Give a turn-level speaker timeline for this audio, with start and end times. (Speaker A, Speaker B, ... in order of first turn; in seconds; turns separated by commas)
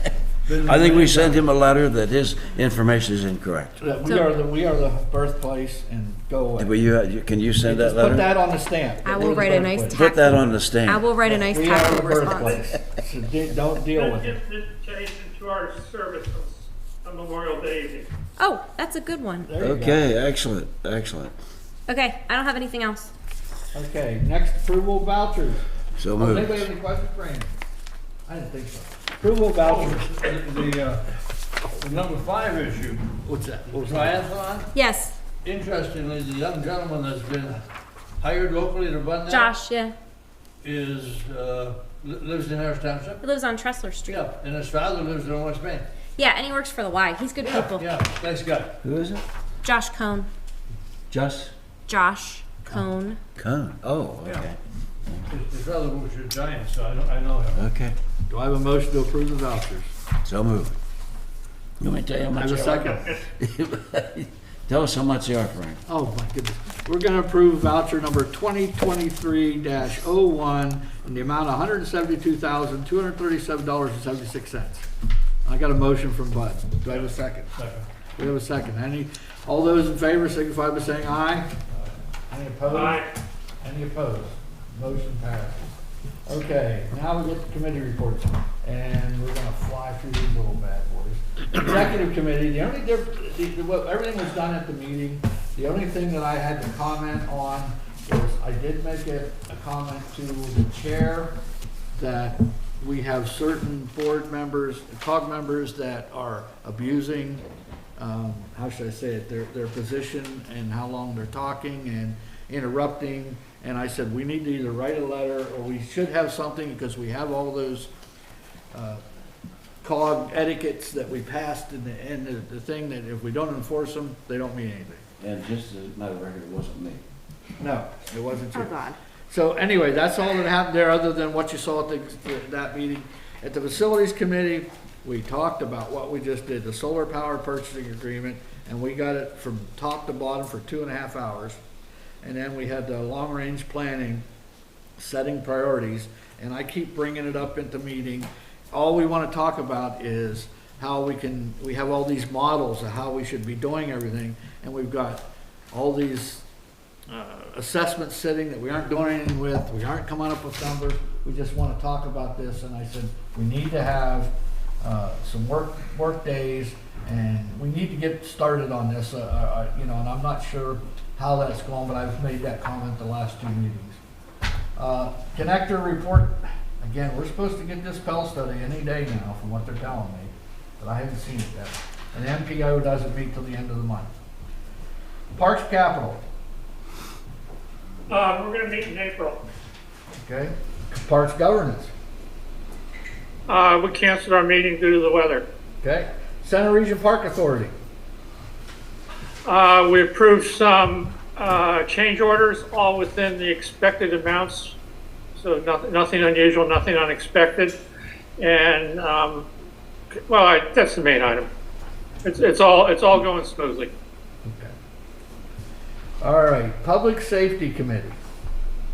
Speaker A: 0.5-1.5, Speaker B: 0.6-3.8, Speaker C: 3.8-6.8, Speaker D: 4.0-4.3, Speaker B: 6.6-8.3, Speaker C: 7.6-10.0, Speaker D: 9.0-12.6, Speaker B: 9.9-11.1, Speaker C: 11.2-14.4, Speaker E: 13.9-18.1, Speaker D: 18.4-19.5, Speaker C: 19.5-20.1, Speaker B: 19.6-21.4, Speaker D: 21.9-23.1, Speaker C: 23.7-25.6, Speaker B: 26.0-26.7, Speaker C: 26.2-27.5, Speaker C: 28.3-30.1, Speaker A: 29.6-31.1, Speaker A: 31.7-33.1, Speaker C: 33.2-34.2, Speaker A: 33.7-34.7, Speaker D: 34.7-35.2, Speaker A: 35.4-37.6, Speaker A: 38.2-39.5, Speaker D: 39.3-40.0, Speaker A: 40.6-43.2, Speaker D: 43.2-44.3, Speaker A: 44.1-45.9, Speaker D: 46.2-47.9, Speaker A: 47.4-48.8, Speaker B: 48.8-49.2, Speaker D: 49.6-50.3, Speaker B: 51.1-51.5, Speaker D: 51.9-53.2, Speaker B: 53.4-55.3, Speaker A: 55.3-57.6, Speaker B: 57.6-58.0, Speaker C: 58.3-59.9, Speaker B: 60.2-60.7, Speaker B: 61.8-62.7, Speaker C: 62.3-63.2, Speaker A: 62.4-63.0, Speaker B: 63.3-65.8, Speaker C: 65.9-74.9, Speaker C: 75.5-77.5, Speaker A: 76.9-77.9, Speaker C: 78.2-81.5, Speaker C: 82.3-83.0, Speaker E: 82.7-83.1, Speaker C: 83.6-85.7, Speaker C: 86.3-101.4, Speaker C: 102.0-107.5, Speaker C: 108.0-117.9, Speaker C: 118.7-119.0, Speaker C: 119.8-125.0, Speaker B: 125.2-127.0, Speaker C: 127.6-141.6, Speaker D: 128.5-129.0, Speaker C: 142.2-144.2, Speaker C: 145.0-156.4, Speaker C: 157.1-174.0, Speaker C: 174.8-184.1, Speaker C: 185.3-186.2, Speaker E: 188.1-189.4, Speaker C: 190.2-191.9, Speaker E: 193.5-195.5, Speaker C: 195.8-197.7, Speaker E: 199.4-204.8, Speaker E: 205.4-207.8, Speaker E: 208.4-209.5, Speaker E: 210.3-211.5, Speaker E: 212.2-213.9, Speaker C: 214.4-214.7, Speaker C: 216.2-218.2